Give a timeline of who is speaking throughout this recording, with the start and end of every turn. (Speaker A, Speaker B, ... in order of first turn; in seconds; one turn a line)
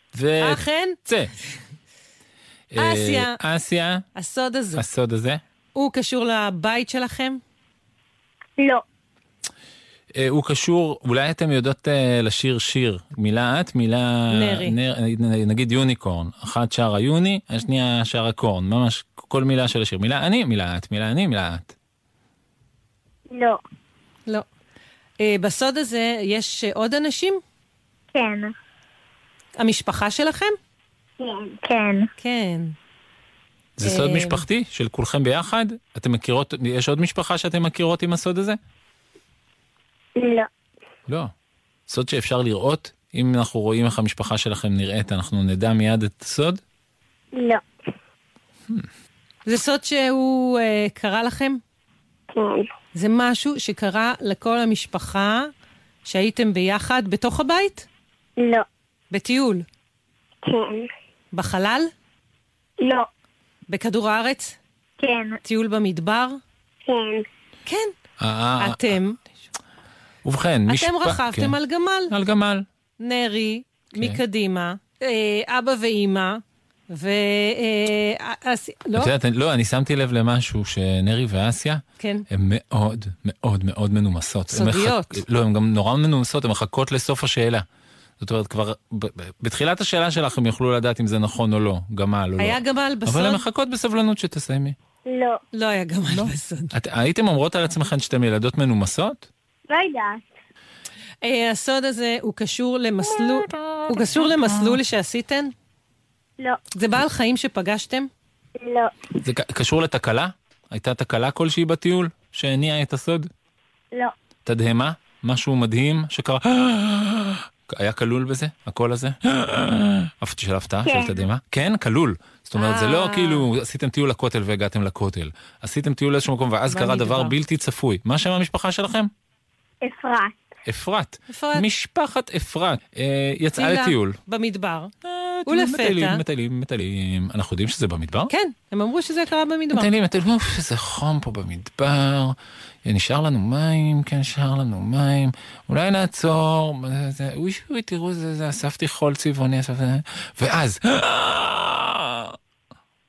Speaker A: 0.1-1.3
Speaker B: 0.4-1.0
Speaker A: 2.7-4.0
Speaker B: 2.8-3.4
Speaker B: 4.2-4.8
Speaker A: 4.7-5.4
Speaker B: 5.7-7.4
Speaker C: 8.6-8.8
Speaker A: 10.1-21.7
Speaker B: 14.3-14.8
Speaker C: 23.3-23.6
Speaker B: 25.2-27.4
Speaker C: 28.1-28.5
Speaker B: 29.6-30.6
Speaker C: 31.2-32.1
Speaker B: 32.2-32.7
Speaker A: 33.8-38.6
Speaker B: 33.8-34.4
Speaker C: 40.2-40.5
Speaker A: 41.9-46.6
Speaker C: 47.3-47.6
Speaker B: 49.5-51.6
Speaker C: 52.3-52.7
Speaker B: 52.9-55.5
Speaker B: 56.0-57.9
Speaker C: 58.4-58.6
Speaker B: 59.1-59.6
Speaker C: 60.4-60.9
Speaker B: 61.3-61.9
Speaker C: 62.8-63.1
Speaker B: 63.7-64.6
Speaker C: 65.0-65.4
Speaker B: 65.4-66.4
Speaker C: 66.9-67.2
Speaker B: 67.7-67.9
Speaker A: 68.2-68.9
Speaker B: 68.6-69.2
Speaker A: 70.2-71.5
Speaker B: 70.7-72.1
Speaker A: 72.1-72.6
Speaker B: 73.0-79.1
Speaker A: 79.0-87.6
Speaker B: 82.0-82.2
Speaker B: 84.5-85.2
Speaker A: 88.2-94.8
Speaker B: 92.4-93.4
Speaker C: 95.1-95.4
Speaker B: 95.5-96.7
Speaker A: 96.2-99.3
Speaker C: 99.7-100.2
Speaker B: 101.2-105.5
Speaker B: 106.7-108.1
Speaker C: 108.6-108.9
Speaker A: 109.2-113.3
Speaker A: 114.5-129.1
Speaker C: 120.8-121.1
Speaker B: 122.6-123.5
Speaker B: 126.7-127.3
Speaker C: 129.8-130.3
Speaker A: 130.7-134.2
Speaker B: 131.3-131.7
Speaker B: 133.6-134.9
Speaker A: 135.0-138.3
Speaker B: 135.5-136.2
Speaker B: 138.3-139.9
Speaker A: 139.7-152.3